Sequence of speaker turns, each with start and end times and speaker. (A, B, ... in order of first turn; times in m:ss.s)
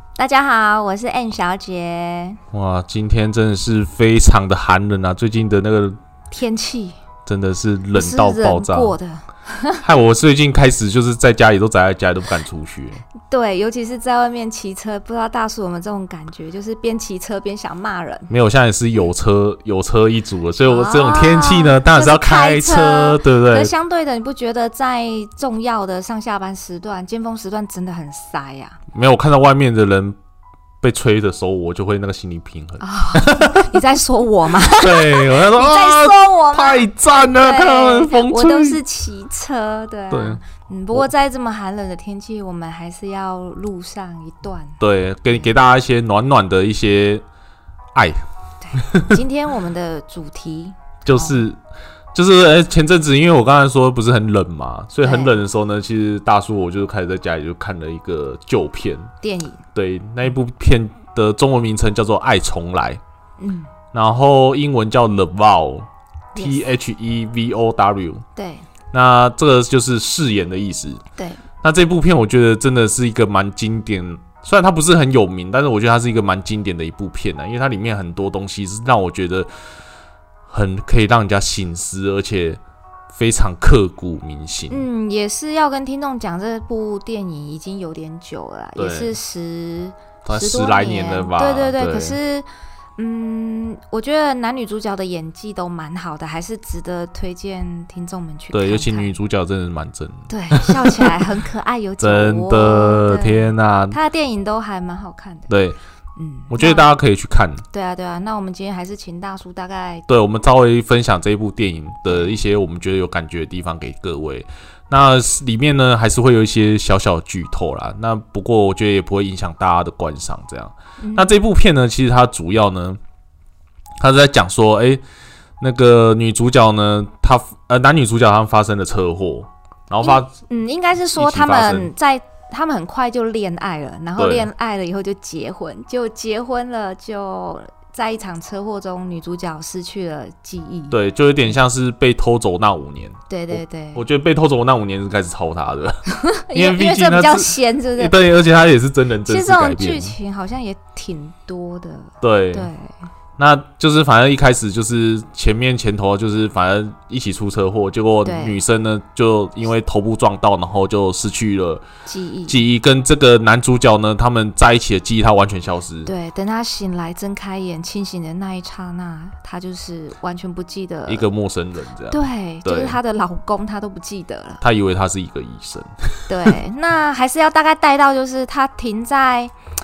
0:00.2-0:02.4 A
0:02.5-0:06.0 B
0:06.3-0:07.0 A
0:07.2-0:08.9 B
0:07.9-0:09.8 A
0:09.8-0:13.0 B
0:13.3-0:18.3 A
0:18.3-0:23.7 B
0:20.6-0:28.8 A
0:28.9-0:30.2 B
0:30.8-0:33.8 B
0:32.8-0:44.8 A
0:34.8-0:38.8 B
0:40.1-0:40.4 B
0:44.8-0:47.2 B
0:47.9-0:48.2 B
0:48.6-0:51.4 A
0:48.8-0:49.2 B
0:51.0-0:51.6 B
0:52.1-0:59.1 B
0:55.0-0:55.4 A
0:59.2-0:59.6 A
0:59.7-1:03.0 B
1:03.4-1:03.7 A
1:03.9-1:08.2 B
1:06.4-1:06.6 A
1:08.4-1:08.6 A
1:08.9-1:11.0 B
1:11.6-1:19.5 B
1:20.5-1:22.6 B
1:23.1-1:24.8 B
1:24.7-1:32.5 A
1:28.8-1:29.1 B
1:30.2-1:32.2 B
1:33.0-1:39.1 A
1:38.5-1:41.3 B
1:40.3-1:45.5 A
1:42.0-1:44.0 B
1:45.5-1:45.8 B
1:46.2-1:46.9 A
1:46.5-1:47.6 B
1:47.7-1:50.0 A
1:50.1-2:03.0 B
1:52.1-1:52.3 A
2:01.0-2:01.4 A
2:04.0-2:05.0 B
2:05.6-2:10.3 B
2:10.0-2:21.0 A
2:11.1-2:11.9 B
2:14.2-2:14.5 B
2:20.9-2:26.0 B
2:23.3-2:24.0 A
2:26.1-2:28.1 A
2:26.5-2:30.1 B
2:29.2-2:32.9 A
2:32.2-2:32.7 B
2:33.4-2:41.8 B
2:38.2-2:38.6 A
2:42.0-2:42.6 A
2:42.5-2:46.1 B
2:46.0-2:51.3 A
2:51.1-2:53.0 B
2:52.1-2:54.6 A
2:54.6-2:56.5 B
2:56.3-2:59.5 A